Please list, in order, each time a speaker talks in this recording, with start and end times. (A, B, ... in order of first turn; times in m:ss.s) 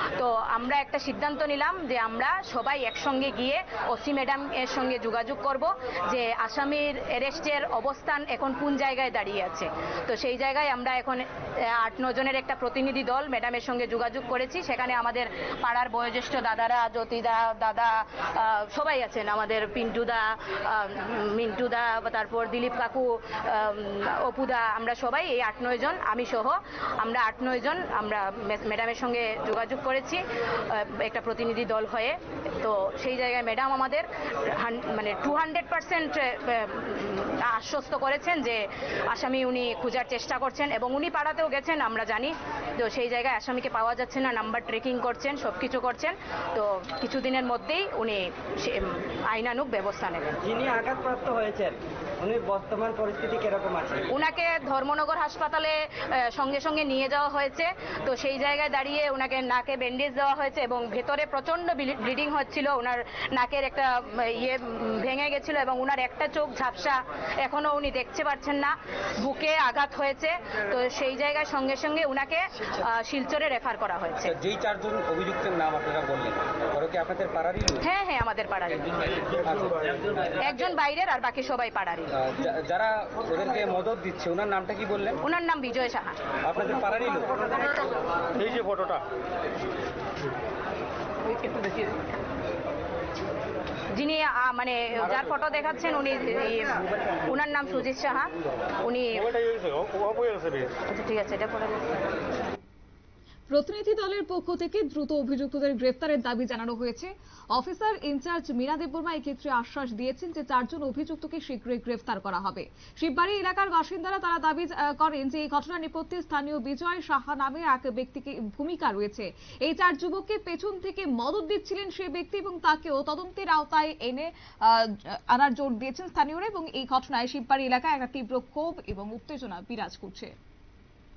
0:00.1-0:50.3 A
0:50.4-0:54.0 B
0:54.1-1:14.3 A
1:14.3-1:17.8 C
1:17.8-1:18.9 A
1:19.4-1:19.9 C
1:20.4-1:22.1 A
1:22.2-1:25.2 C
1:25.2-1:26.1 A
1:26.4-1:27.3 C
1:28.3-1:29.0 D
1:31.3-1:31.7 A
1:33.9-1:38.3 A
1:38.8-1:39.3 A
1:39.3-1:40.7 D
1:40.9-1:42.0 A
1:43.5-2:10.3 E